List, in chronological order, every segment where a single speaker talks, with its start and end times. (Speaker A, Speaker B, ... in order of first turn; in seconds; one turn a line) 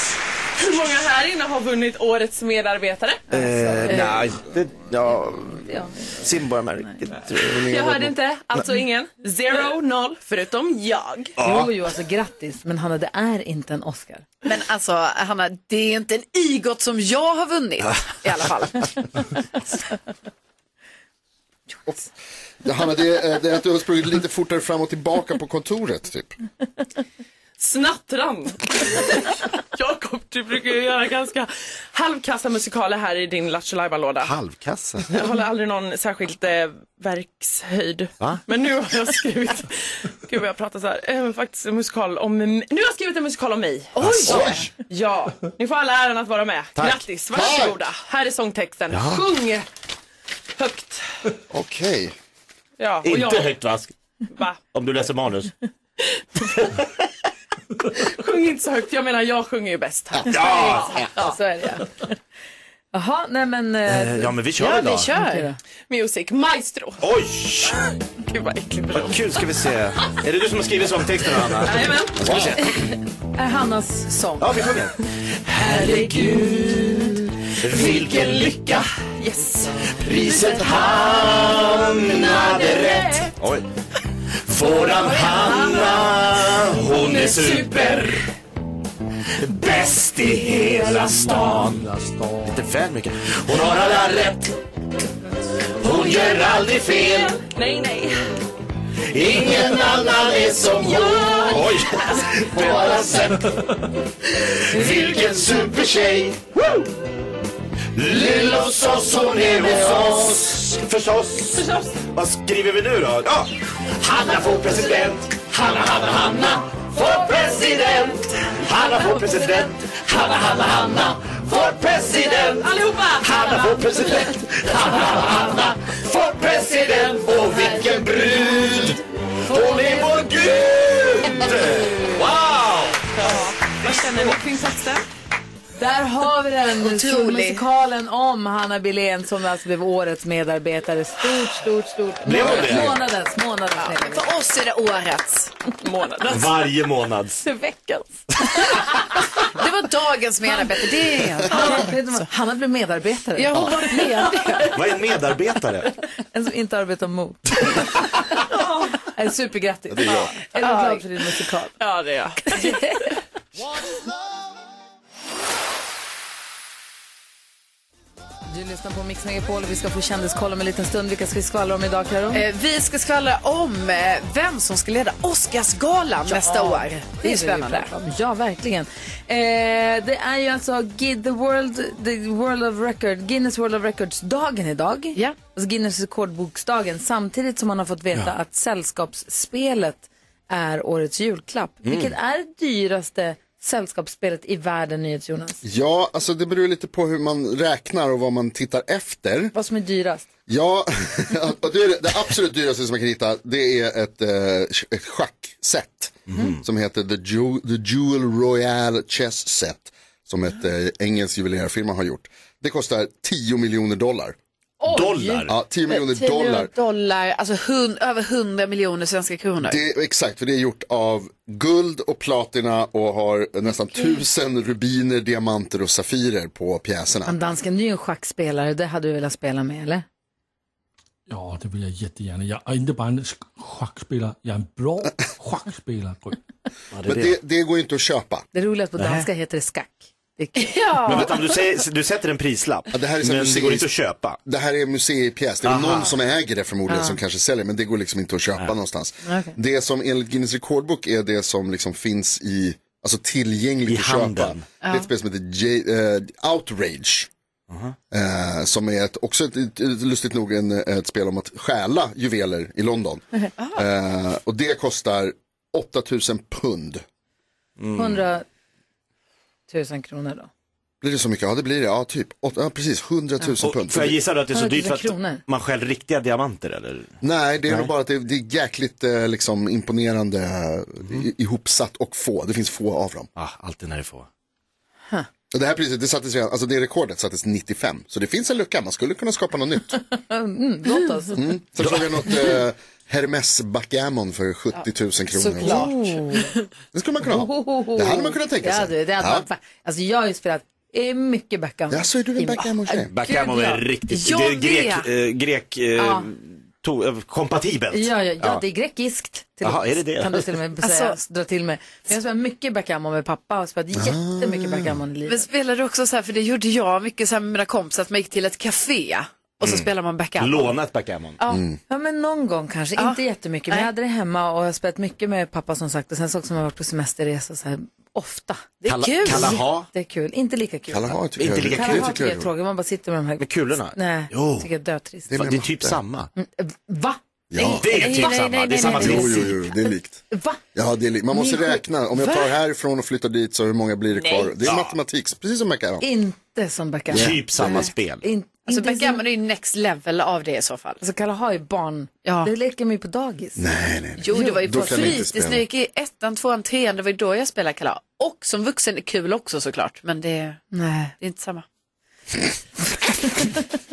Speaker A: 0.6-3.3
Speaker B: 3.3-5.7
Speaker C: 3.9-4.2
Speaker C: 5.6-6.1
Speaker B: 6.2-8.1
Speaker A: 7.6-11.3
Speaker B: 11.4-11.7
Speaker C: 11.4-14.2
Speaker D: 14.4-19.2
Speaker E: 22.6-26.4
Speaker A: 27.6-34.3
Speaker B: 34.2-35.1
Speaker A: 35.1-39.7
Speaker A: 40.2-49.7
Speaker D: 44.0-44.6
Speaker B: 44.0-44.7
Speaker B: 46.8-47.0
Speaker E: 47.3-47.8
Speaker B: 48.9-49.2
Speaker A: 50.6-51.0
Speaker E: 51.5-52.1
Speaker A: 52.8-53.5
Speaker B: 53.0-53.9
Speaker A: 54.3-54.6
Speaker B: 54.7-55.5
Speaker A: 58.0-61.4
Speaker B: 60.2-61.1
Speaker C: 60.7-61.9
Speaker C: 62.9-64.3
Speaker B: 63.9-65.1
Speaker D: 64.6-65.5
Speaker C: 65.1-65.6
Speaker A: 65.9-67.0
Speaker B: 67.0-67.8
Speaker A: 68.2-69.4
Speaker B: 68.9-72.7
Speaker A: 71.6-72.2
Speaker C: 73.3-74.5
Speaker B: 74.4-77.0
Speaker C: 75.7-76.9
Speaker B: 77.6-78.9
Speaker B: 79.9-83.6
Speaker C: 80.2-81.2
Speaker C: 82.4-82.8
Speaker B: 84.5-88.2
Speaker A: 85.1-86.1
Speaker A: 86.8-88.2
Speaker B: 89.4-91.8
Speaker F: 91.4-92.6
Speaker B: 92.5-94.5
Speaker B: 95.8-97.4
Speaker A: 95.8-98.2
Speaker B: 99.1-103.5
Speaker A: 99.3-103.3
Speaker B: 104.3-106.9
Speaker A: 104.7-105.4
Speaker B: 107.9-134.4
Speaker A: 122.6-123.7
Speaker C: 129.5-130.3
Speaker A: 133.2-135.0
Speaker C: 135.8-144.2
Speaker D: 136.8-137.6
Speaker B: 142.2-143.0
Speaker D: 143.9-145.5
Speaker A: 145.8-146.6
Speaker B: 146.2-147.4
Speaker C: 147.4-148.2
Speaker D: 149.4-152.0
Speaker C: 151.5-154.4
Speaker D: 153.3-154.8
Speaker B: 154.7-155.9
Speaker C: 156.3-157.8
Speaker C: 159.0-161.7
Speaker E: 160.0-160.3
Speaker D: 160.6-160.9
Speaker A: 161.8-162.6
Speaker C: 162.5-163.0
Speaker C: 168.5-172.4
Speaker D: 172.3-177.9
Speaker C: 176.3-195.6
Speaker B: 191.8-192.1
Speaker E: 195.6-199.5
Speaker C: 199.5-200.3
Speaker E: 200.5-214.3
Speaker B: 206.3-206.6
Speaker C: 214.8-215.5
Speaker B: 214.8-215.5
Speaker E: 215.5-216.7
Speaker D: 215.9-219.8
Speaker E: 219.6-227.3
Speaker C: 227.2-230.0
Speaker F: 231.3-236.4
Speaker B: 236.9-237.4
Speaker E: 237.0-238.4
Speaker C: 238.5-241.3
Speaker D: 240.6-241.3
Speaker B: 241.1-244.4
Speaker E: 242.9-243.9
Speaker E: 244.4-257.3
Speaker B: 245.6-246.1
Speaker C: 249.2-249.5
Speaker B: 253.9-254.6
Speaker D: 254.8-255.1
Speaker B: 257.7-257.9
Speaker E: 258.1-267.0
Speaker D: 263.6-263.8
Speaker B: 267.8-268.2
Speaker C: 267.9-268.4
Speaker C: 269.7-270.5
Speaker E: 271.0-274.2
Speaker B: 273.6-277.1
Speaker C: 274.5-275.4
Speaker E: 277.2-283.3
Speaker B: 283.4-284.3
Speaker E: 285.5-290.0
Speaker C: 290.1-291.4
Speaker E: 291.3-295.9
Speaker B: 291.8-292.5
Speaker D: 294.8-296.5
Speaker C: 295.6-296.5
Speaker E: 296.9-299.4
Speaker C: 297.2-303.8
Speaker E: 301.9-303.1
Speaker B: 303.1-308.6
Speaker D: 304.1-305.1
Speaker C: 306.0-306.3
Speaker C: 307.9-315.5
Speaker B: 309.6-310.5
Speaker D: 310.8-311.2
Speaker E: 313.9-315.0
Speaker D: 315.3-320.8
Speaker B: 319.6-321.4
Speaker D: 321.4-321.6
Speaker E: 321.5-321.8
Speaker C: 321.9-335.3
Speaker D: 323.0-323.9
Speaker D: 328.8-329.6
Speaker B: 328.8-329.9
Speaker E: 330.9-332.5
Speaker B: 331.4-332.1
Speaker B: 333.4-334.7
Speaker E: 335.3-336.0
Speaker B: 335.3-336.3
Speaker C: 336.4-337.2
Speaker E: 337.5-338.1
Speaker D: 337.6-339.4
Speaker B: 337.8-339.6
Speaker C: 337.9-339.2
Speaker E: 338.8-340.2
Speaker C: 340.3-340.6
Speaker E: 340.7-346.1
Speaker C: 341.3-342.4
Speaker B: 344.6-344.9
Speaker C: 346.0-349.2
Speaker E: 347.1-347.9
Speaker B: 347.1-348.2
Speaker D: 348.7-351.0
Speaker C: 351.0-353.6
Speaker D: 352.2-352.5
Speaker E: 353.6-355.6
Speaker D: 354.2-360.6
Speaker C: 354.3-355.2
Speaker C: 360.7-361.1
Speaker D: 361.2-361.6
Speaker C: 363.2-363.7